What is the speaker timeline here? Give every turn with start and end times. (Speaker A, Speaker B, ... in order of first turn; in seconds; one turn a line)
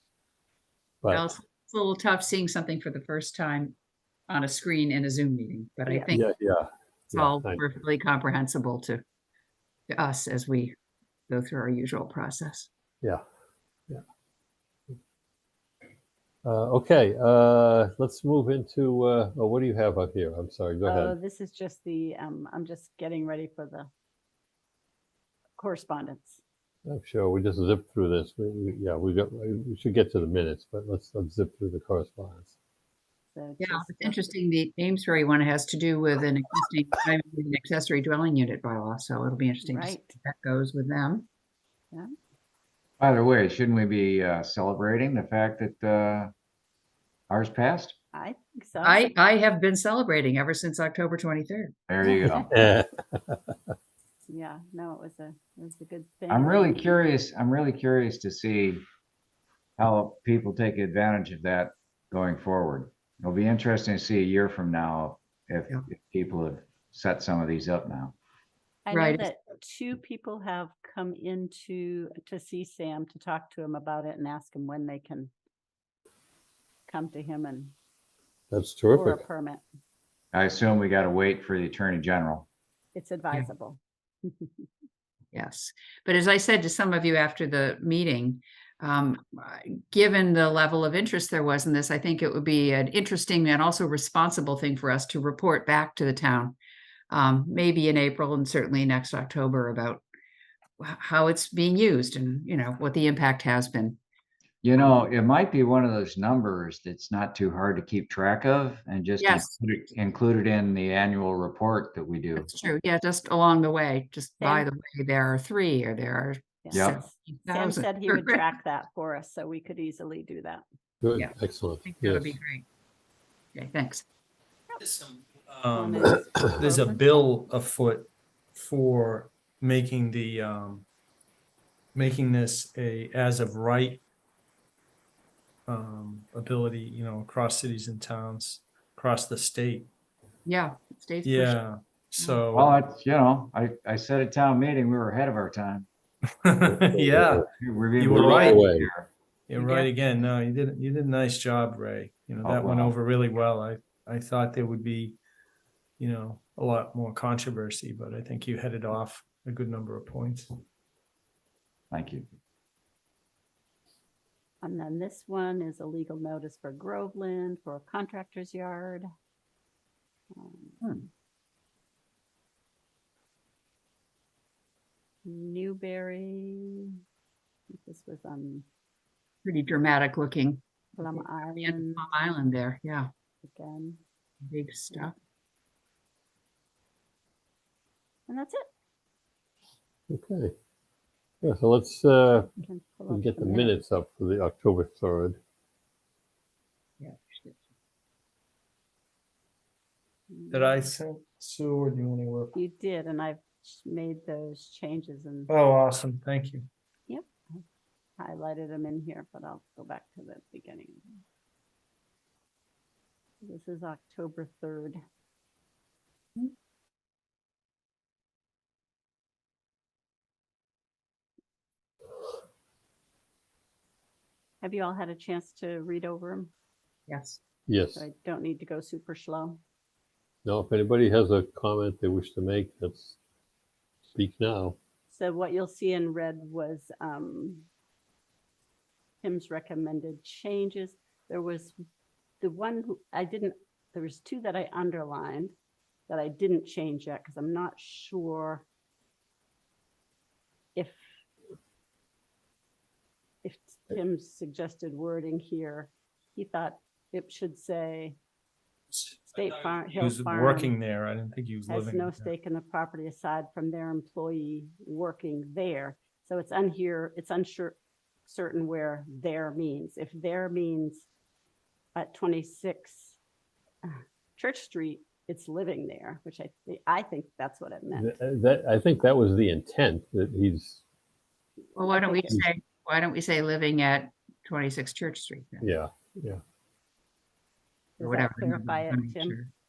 Speaker A: 1.0-1.3
Speaker B: 1.1-3.8
Speaker B: 4.3-6.2
Speaker C: 5.8-6.1
Speaker A: 6.1-7.6
Speaker B: 7.1-9.0
Speaker B: 9.9-10.7
Speaker B: 11.3-12.7
Speaker A: 16.4-21.1
Speaker C: 20.8-23.9
Speaker C: 25.6-26.4
Speaker A: 26.9-32.5
Speaker C: 33.3-34.3
Speaker B: 33.6-41.2
Speaker C: 39.6-40.1
Speaker D: 43.0-46.3
Speaker D: 47.3-47.9
Speaker C: 48.1-49.1
Speaker B: 48.8-51.8
Speaker D: 51.9-52.5
Speaker C: 52.0-52.5
Speaker A: 52.4-53.5
Speaker C: 54.3-56.9
Speaker D: 56.3-58.8
Speaker D: 59.8-68.1
Speaker C: 68.8-75.3
Speaker B: 68.9-69.2
Speaker C: 76.9-77.7
Speaker A: 78.5-79.2
Speaker C: 78.9-79.6
Speaker D: 80.3-82.5
Speaker C: 82.9-84.7
Speaker B: 85.3-96.6
Speaker B: 97.1-100.0
Speaker B: 100.8-104.0
Speaker D: 104.6-112.5
Speaker B: 109.2-109.5
Speaker B: 112.3-118.5
Speaker C: 114.4-114.7
Speaker C: 116.6-120.6
Speaker D: 116.7-117.0
Speaker A: 121.0-122.4
Speaker B: 121.2-122.7
Speaker B: 123.5-124.0
Speaker E: 124.8-130.9
Speaker C: 125.7-127.3
Speaker E: 131.9-134.0
Speaker E: 135.7-139.9
Speaker B: 140.4-141.6
Speaker E: 141.2-142.7
Speaker D: 142.5-145.9
Speaker E: 146.4-147.4
Speaker A: 146.9-147.4
Speaker D: 147.5-149.1
Speaker E: 148.0-148.6
Speaker A: 148.1-148.9
Speaker E: 149.5-155.2
Speaker B: 149.6-149.9
Speaker D: 152.4-152.9
Speaker E: 156.0-160.5
Speaker D: 161.9-162.3
Speaker C: 164.6-169.1
Speaker C: 170.3-170.8
Speaker B: 170.8-171.1
Speaker C: 175.2-177.0
Speaker C: 177.7-178.6
Speaker B: 179.4-180.6
Speaker C: 181.0-182.1
Speaker B: 181.6-183.1
Speaker C: 183.4-184.0
Speaker B: 184.4-185.1
Speaker C: 188.3-188.7
Speaker A: 190.1-190.5
Speaker A: 191.4-192.5
Speaker C: 192.6-193.7
Speaker A: 193.1-195.4
Speaker B: 197.0-197.6
Speaker C: 200.3-200.8
Speaker E: 200.5-202.5
Speaker C: 202.5-205.5
Speaker E: 205.5-206.7
Speaker C: 207.1-207.6
Speaker C: 208.2-211.2
Speaker C: 213.4-215.0
Speaker C: 224.6-226.5
Speaker B: 227.1-227.4
Speaker A: 227.7-228.0
Speaker C: 227.9-229.6
Speaker A: 230.4-233.2
Speaker A: 234.1-234.8
Speaker C: 235.1-237.7
Speaker C: 239.2-241.8
Speaker C: 242.4-245.5
Speaker C: 246.1-248.7
Speaker C: 250.7-251.0
Speaker C: 253.4-258.2
Speaker E: 258.9-262.3
Speaker C: 259.4-260.7
Speaker C: 261.7-271.1
Speaker C: 271.9-273.2
Speaker C: 273.8-278.1
Speaker A: 277.9-280.8
Speaker B: 281.7-285.7
Speaker C: 281.9-282.4
Speaker A: 285.6-286.4
Speaker C: 288.0-289.4
Speaker B: 288.0-289.5